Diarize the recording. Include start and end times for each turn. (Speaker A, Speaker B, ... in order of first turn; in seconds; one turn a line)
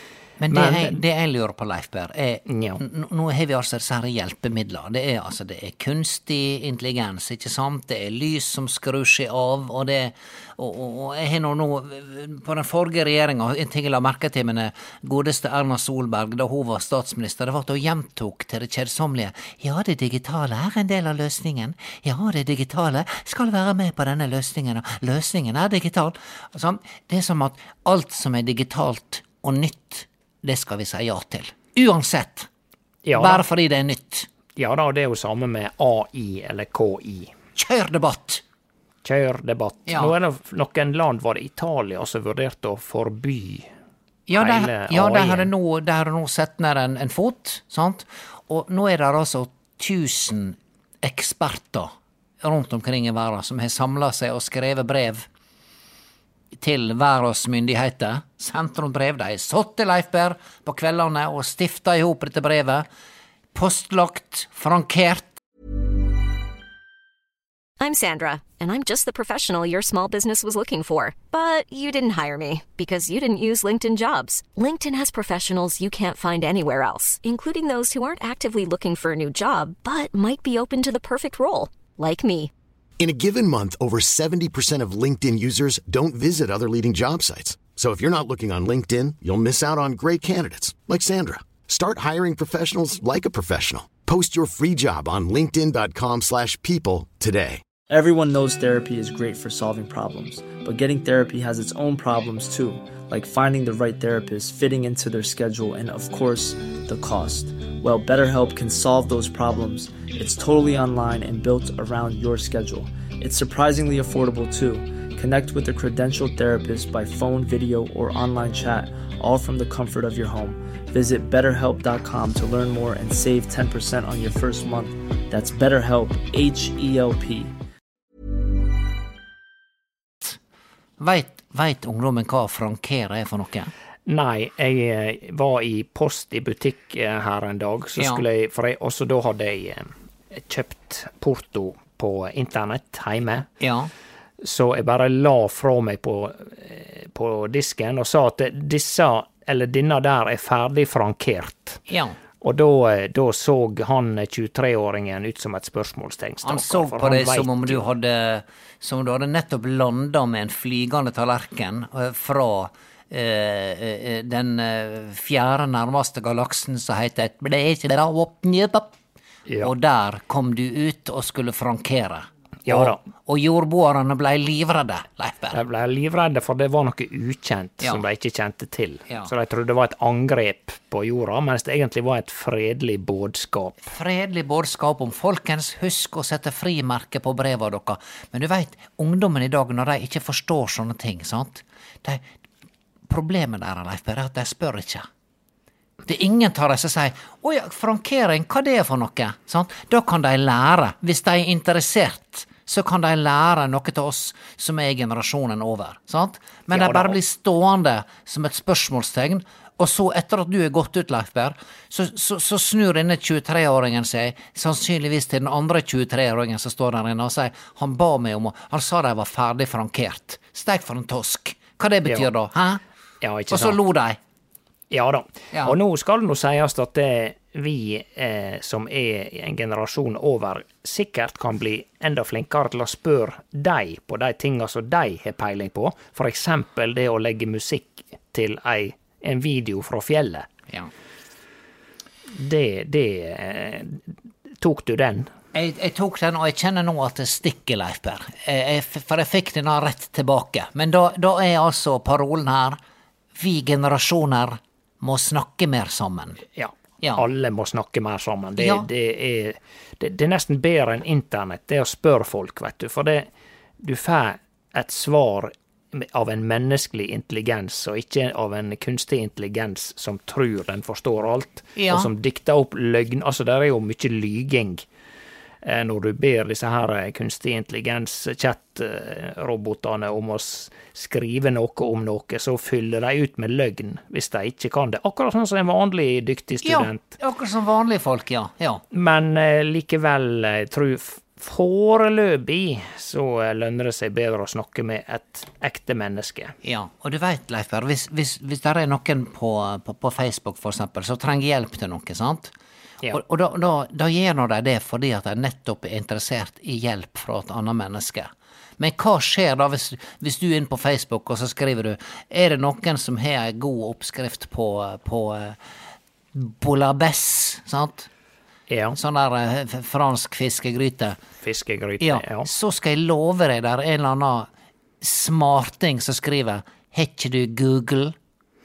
Speaker A: 0.4-32.5
Speaker B: 0.5-1.0
Speaker B: 2.5-2.8
Speaker B: 33.0-33.4
Speaker A: 33.1-34.3
Speaker B: 34.6-37.3
Speaker A: 37.5-38.4
Speaker B: 39.0-43.7
Speaker A: 39.9-40.1
Speaker A: 44.3-55.3
Speaker B: 44.4-45.5
Speaker A: 56.5-62.9
Speaker A: 63.5-65.4
Speaker C: 67.8-82.5
Speaker D: 83.0-97.6
Speaker E: 97.9-127.5
Speaker A: 131.0-133.7
Speaker B: 134.1-143.5
Speaker A: 138.0-138.2
Speaker A: 143.6-143.9
Speaker B: 144.4-151.8
Speaker A: 151.9-152.2
Speaker B: 152.4-157.8
Speaker A: 156.4-168.9
Speaker B: 169.5-169.7
Speaker A: 169.6-175.6
Speaker B: 172.7-173.0
Speaker B: 175.5-183.9
Speaker A: 183.9-192.2
Speaker A: 193.1-195.1
Speaker A: 196.1-222.8
Speaker B: 206.7-207.2
Speaker B: 223.2-223.8
Speaker A: 223.5-224.2
Speaker B: 224.9-240.5
Speaker B: 242.3-244.0
Speaker B: 244.6-245.3
Speaker A: 245.5-252.8
Speaker A: 253.3-256.4
Speaker B: 256.6-263.3
Speaker A: 258.6-258.9
Speaker B: 263.8-274.8
Speaker A: 271.8-272.1
Speaker B: 275.6-287.1
Speaker A: 286.6-288.8
Speaker B: 288.9-296.5
Speaker A: 296.6-302.5
Speaker A: 303.1-315.6
Speaker A: 316.3-318.1
Speaker B: 318.7-319.0
Speaker A: 318.9-321.2
Speaker B: 321.4-322.5
Speaker A: 322.0-324.5
Speaker A: 325.0-328.1